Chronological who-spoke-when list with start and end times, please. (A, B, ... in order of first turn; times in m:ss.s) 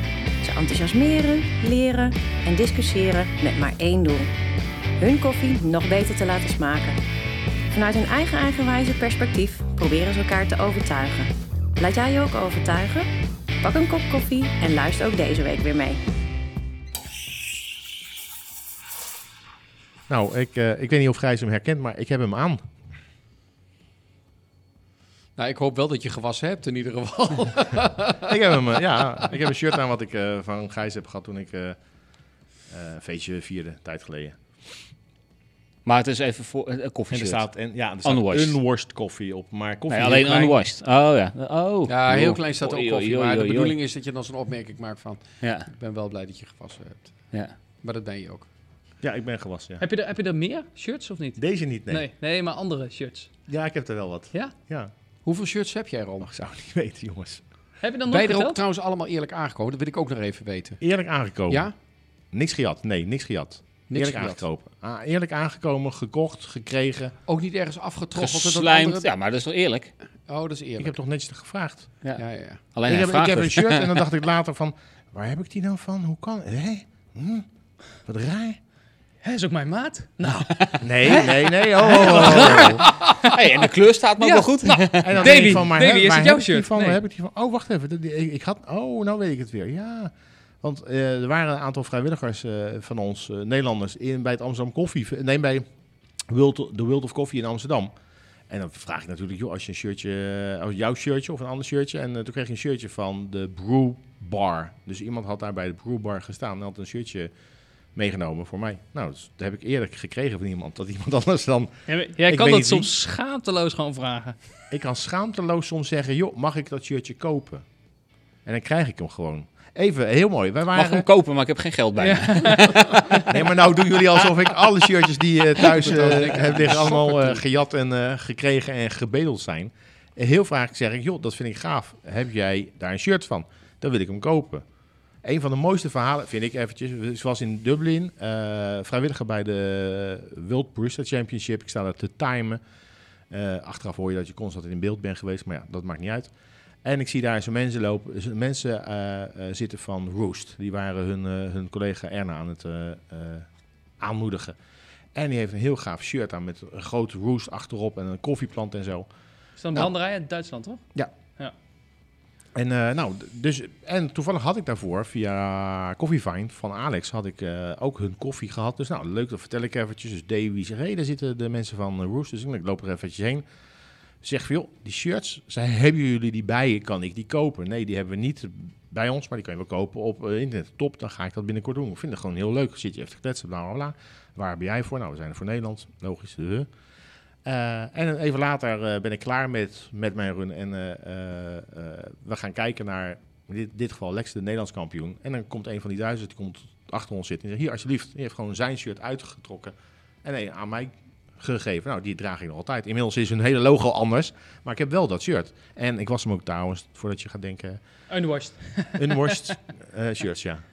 0:00.4-0:04.3 A
0:05.0-0:07.0 A
0:07.7-0:13.1 A
0:13.6-0:16.0 A
0:20.1-0:22.7 B
0:25.4-0:28.6 C
0:28.2-0:31.8 B
0:32.7-0:34.4 B
0:35.8-0:37.4 D
0:37.1-0:40.6 B
0:38.0-0:38.6 D
0:39.9-0:43.7 D
0:41.8-0:48.5 C
0:45.4-0:45.7 D
0:49.0-0:49.8 B
0:49.8-0:53.3 E
0:51.4-0:52.1 B
0:53.5-0:54.9 B
0:55.2-0:56.3 C
0:56.2-0:57.4 B
0:57.8-0:58.6 E
0:58.1-1:00.8 C
1:00.8-1:01.7 B
1:01.5-1:01.7 C
1:02.3-1:07.1 B
1:03.9-1:04.4 C
1:07.2-1:09.1 C
1:08.2-1:09.9 D
1:10.3-1:10.9 C
1:10.8-1:11.9 B
1:12.0-1:14.0 D
1:12.2-1:12.6 C
1:12.9-1:17.5 B
1:18.0-1:18.6 B
1:19.2-1:23.6 E
1:20.2-1:21.3 D
1:20.8-1:22.8 B
1:22.0-1:25.6 D
1:24.2-1:27.0 E
1:25.0-1:35.7 B
1:36.3-1:37.9 B
1:38.5-1:47.3 B
1:47.9-1:52.9 B
1:51.9-1:54.4 E
1:54.7-1:57.6 B
1:58.4-2:01.0 B
2:00.7-2:03.2 D
2:02.0-2:03.4 E
2:03.3-2:14.6 B
2:05.6-2:06.2 D
2:05.7-2:07.4 C
2:15.2-2:22.6 B
2:23.3-2:26.3 B
2:26.8-2:33.5 B
2:34.0-2:34.6 B
2:35.1-2:39.1 B
2:39.6-2:40.8 E
2:42.6-2:53.4 B
2:54.2-3:06.7 B
3:07.4-3:27.8 B
3:28.1-3:29.4 E
3:28.9-3:30.6 B